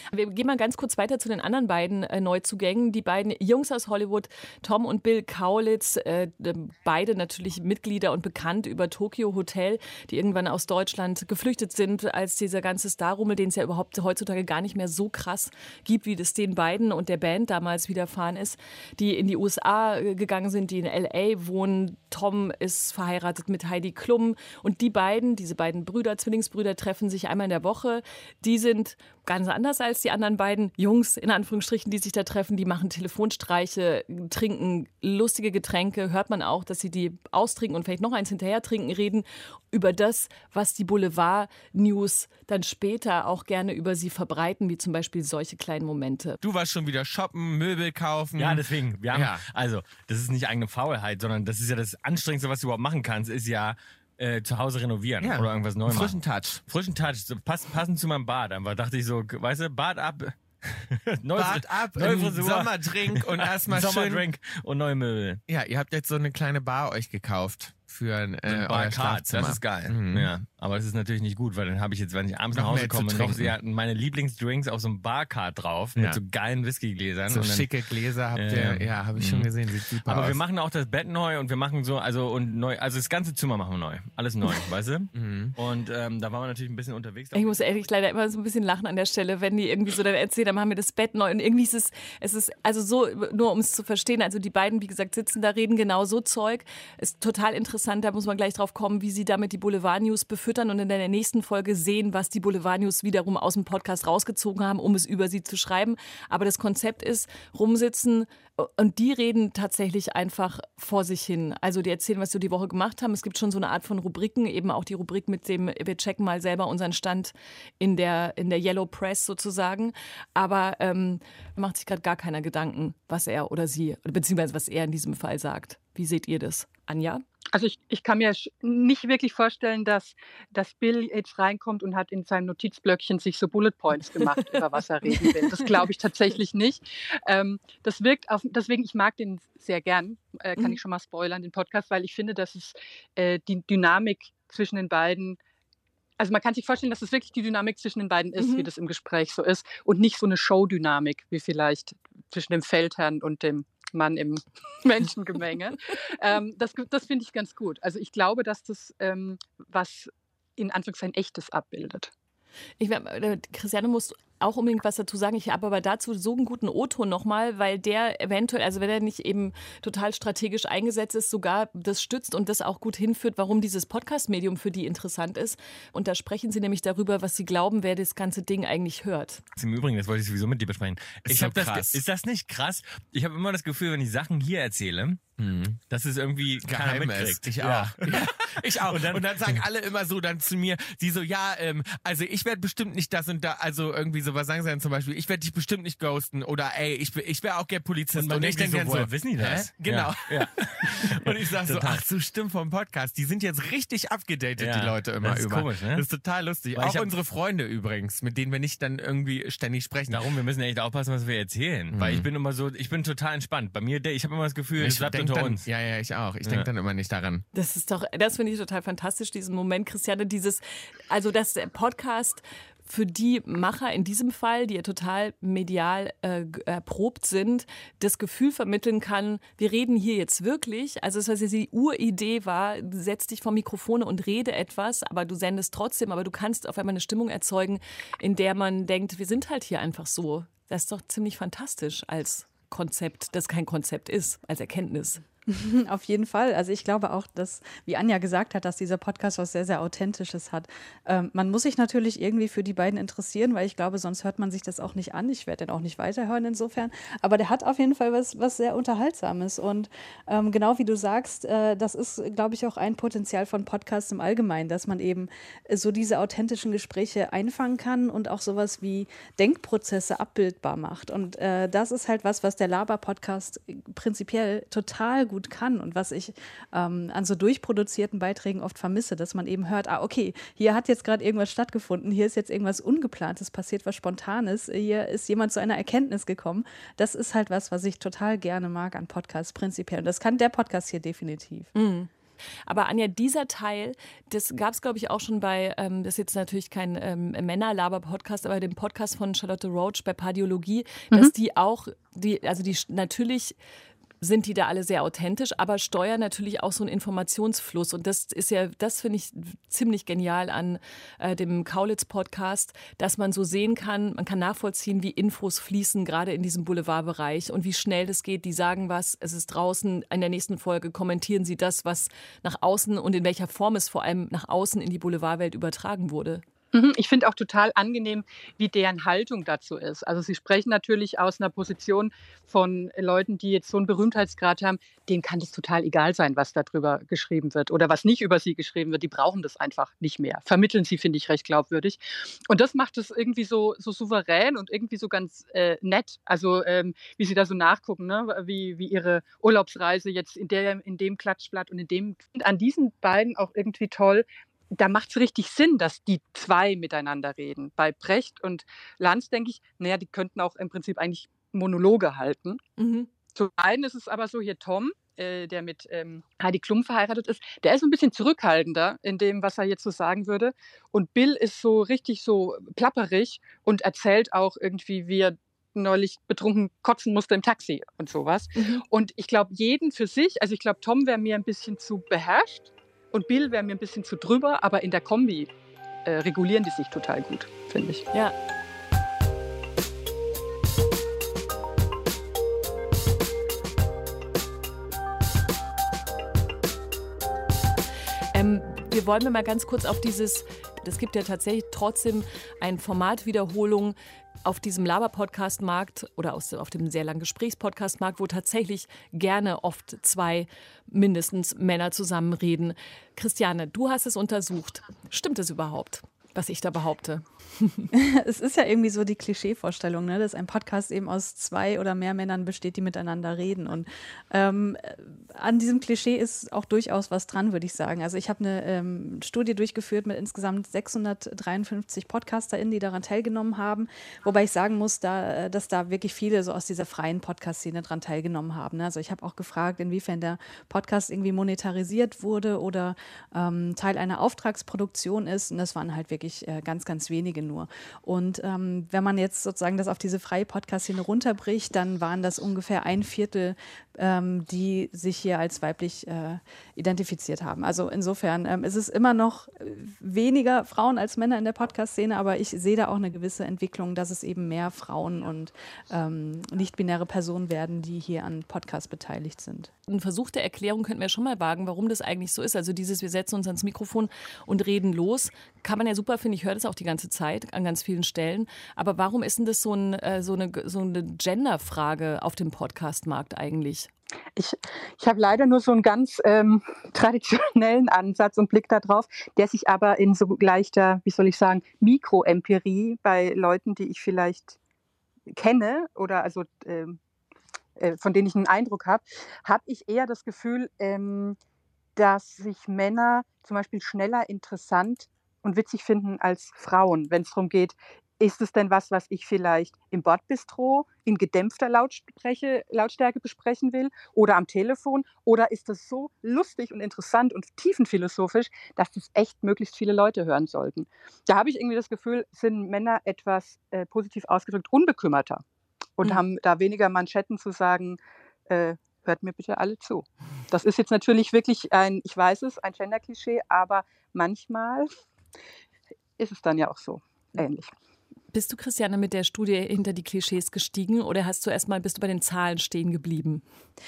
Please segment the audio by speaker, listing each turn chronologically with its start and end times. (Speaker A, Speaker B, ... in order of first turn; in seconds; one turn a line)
Speaker A: 0.1-46.4
Speaker B: 46.4-49.4
Speaker C: 48.4-65.4
Speaker B: 55.2-56.6
Speaker B: 61.3-64.3
Speaker B: 65.5-70.3
Speaker C: 68.5-77.7
Speaker B: 72.5-73.6
Speaker B: 76.0-76.2
Speaker B: 77.3-80.4
Speaker C: 78.3-79.5
Speaker C: 80.0-87.8
Speaker B: 85.1-85.5
Speaker A: 87.3-127.2
Speaker D: 127.5-145.4
Speaker D: 146.2-162.1
Speaker A: 148.4-148.7
Speaker A: 162.8-179.4
Speaker C: 179.6-189.6
Speaker B: 181.2-182.0
Speaker B: 185.4-185.8
Speaker B: 186.6-210.3
Speaker C: 198.2-202.0
Speaker C: 204.6-206.1
Speaker C: 206.8-207.2
Speaker C: 210.1-215.7
Speaker B: 211.9-212.3
Speaker B: 214.8-217.4
Speaker C: 216.4-216.7
Speaker A: 217.5-245.2
Speaker E: 245.5-291.7
Speaker A: 291.8-292.1
Speaker A: 292.7-303.6
Speaker A: 304.2-326.4
Speaker D: 326.7-362.6
Speaker A: 362.8-363.1
Speaker D: 363.4-385.5
Speaker A: 378.6-378.8
Speaker D: 386.1-388.0
Speaker A: 398.3-417.9
Speaker E: 417.9-469.7
Speaker A: 469.9-483.9
Speaker D: 484.4-494.6
Speaker D: 495.3-497.0
Speaker D: 497.8-501.4
Speaker D: 502.0-525.4
Speaker D: 526.0-534.9
Speaker D: 536.2-537.7
Speaker A: 538.3-543.4